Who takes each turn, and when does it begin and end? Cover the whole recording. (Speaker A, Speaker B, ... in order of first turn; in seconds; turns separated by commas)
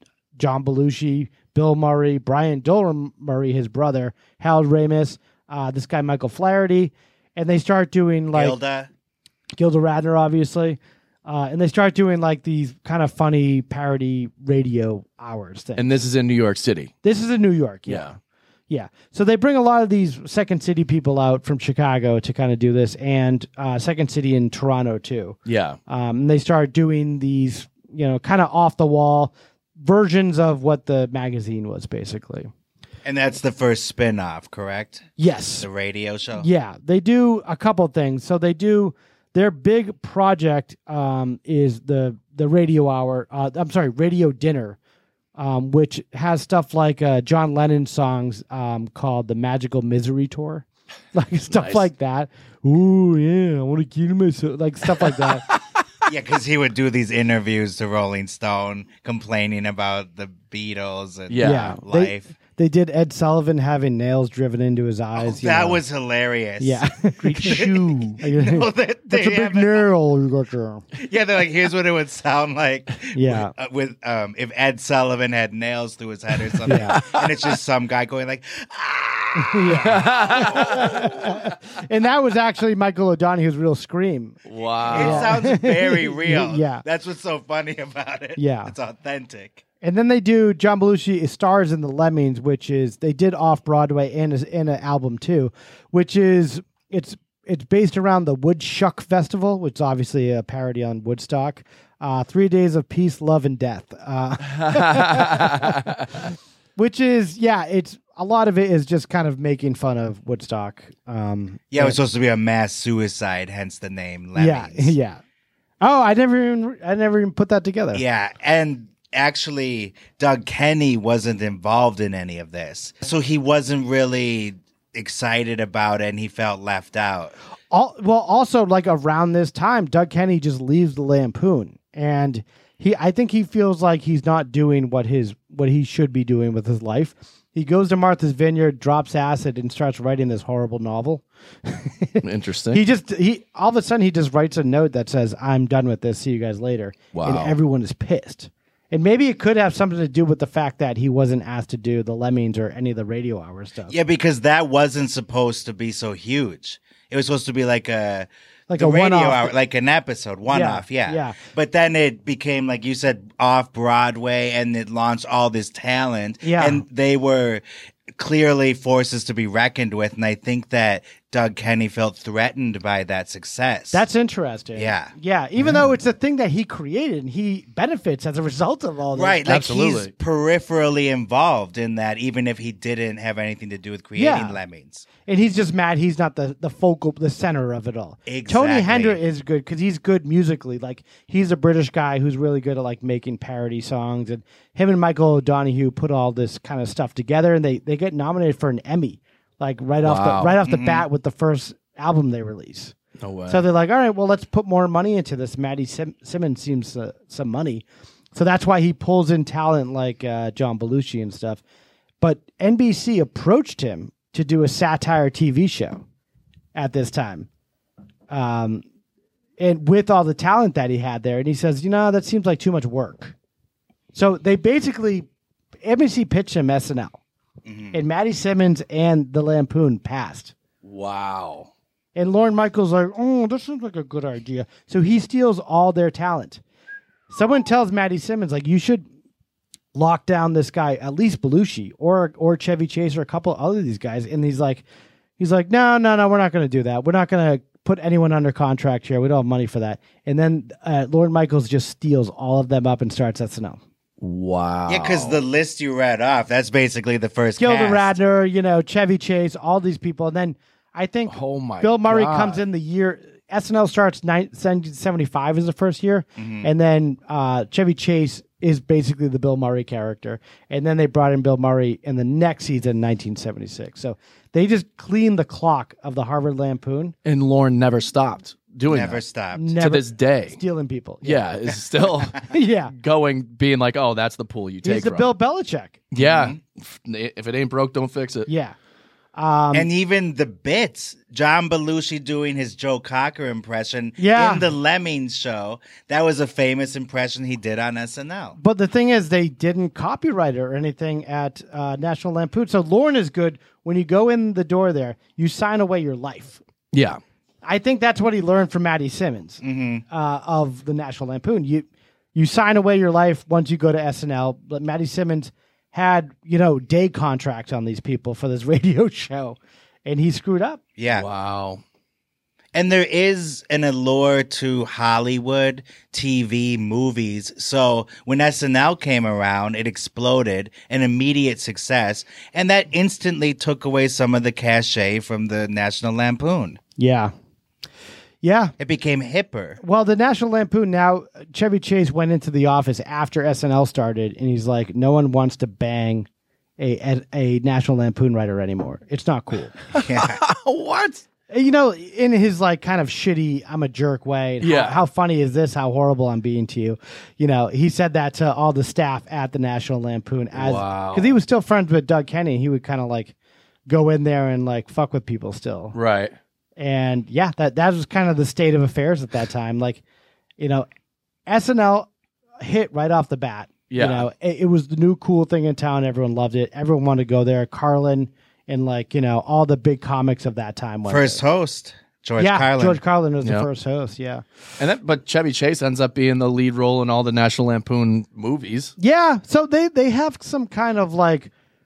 Speaker A: 0.4-8.6, Speaker B: 8.3-8.9, Speaker A: 9.6-15.9, Speaker C: 15.8-16.9, Speaker A: 17.0-18.1, Speaker C: 17.9-18.1, Speaker A: 18.7-25.4, Speaker C: 25.4-25.8, Speaker A: 25.9-32.5, Speaker B: 33.0-35.1, Speaker A: 35.2-35.7, Speaker B: 35.6-36.5, Speaker A: 36.3-44.8, Speaker A: 45.4-55.4, Speaker C: 51.5-51.9, Speaker C: 55.1-55.6, Speaker B: 56.1-62.3, Speaker C: 61.3-61.8, Speaker A: 61.4-65.8, Speaker B: 65.2-69.9, Speaker A: 66.6-70.8, Speaker C: 67.3-68.0, Speaker B: 70.9-81.0, Speaker A: 73.1-73.5, Speaker A: 76.7-77.0, Speaker C: 77.0-77.2, Speaker A: 79.4-86.8, Speaker C: 79.7-81.3, Speaker C: 84.5-85.3, Speaker B: 84.9-89.6, Speaker A: 88.4-88.7, Speaker A: 89.8-105.9, Speaker C: 104.6-105.9, Speaker A: 106.8-112.0, Speaker B: 111.7-115.0, Speaker A: 114.4-115.2, Speaker A: 115.8-118.0, Speaker B: 117.9-127.4, Speaker A: 127.7-153.9, Speaker C: 142.2-142.8, Speaker C: 147.1-147.6, Speaker B: 153.9-174.0, Speaker A: 158.7-159.5, Speaker A: 160.5-161.4, Speaker A: 166.4-166.8, Speaker A: 173.9-179.5, Speaker B: 174.7-175.1, Speaker B: 179.1-185.1, Speaker C: 179.4-180.1, Speaker A: 184.2-184.6, Speaker A: 185.3-202.9, Speaker B: 188.3-189.2, Speaker C: 200.0-200.6, Speaker B: 200.7-201.1, Speaker C: 203.2-203.6, Speaker A: 203.5-211.6, Speaker A: 212.2-216.0, Speaker A: 216.7-217.5, Speaker A: 218.3-218.8, Speaker A: 219.6-223.3, Speaker A: 224.1-225.3, Speaker A: 225.8-227.2, Speaker B: 227.7-227.9, Speaker A: 227.9-230.5, Speaker C: 230.8-231.7, Speaker A: 232.1-236.6, Speaker A: 237.3-239.1, Speaker A: 239.9-244.8, Speaker A: 245.4-253.8, Speaker C: 254.2-255.4, Speaker B: 254.9-258.2, Speaker A: 257.6-277.1, Speaker C: 261.3-262.6, Speaker B: 266.4-266.7, Speaker C: 277.2-279.2, Speaker B: 278.9-279.7, Speaker A: 279.6-281.4, Speaker C: 279.8-280.6, Speaker C: 281.2-282.4, Speaker A: 282.4-282.9, Speaker C: 282.9-285.3, Speaker A: 284.8-286.0, Speaker C: 286.1-288.5, Speaker B: 286.2-286.6, Speaker A: 288.5-288.7, Speaker A: 289.3-289.9, Speaker B: 289.7-298.6, Speaker A: 294.2-294.7, Speaker A: 298.6-306.6, Speaker C: 306.9-307.2, Speaker A: 307.6-320.8, Speaker B: 309.6-310.0, Speaker B: 321.0-321.3, Speaker C: 321.1-321.8, Speaker B: 322.7-336.8, Speaker A: 337.0-337.3, Speaker A: 338.4-338.7, Speaker B: 338.8-339.8, Speaker A: 339.8-346.3, Speaker A: 346.8-349.8, Speaker C: 349.9-351.2, Speaker B: 349.9-350.4, Speaker A: 351.5-363.3, Speaker C: 354.6-355.0, Speaker C: 360.5-361.4, Speaker A: 363.9-365.9, Speaker C: 365.9-366.3, Speaker A: 366.8-370.0, Speaker A: 370.6-370.9, Speaker A: 371.5-372.1, Speaker A: 372.6-381.4, Speaker C: 373.9-374.3, Speaker B: 381.1-383.0, Speaker A: 382.4-384.4, Speaker C: 384.8-388.9, Speaker A: 389.0-391.5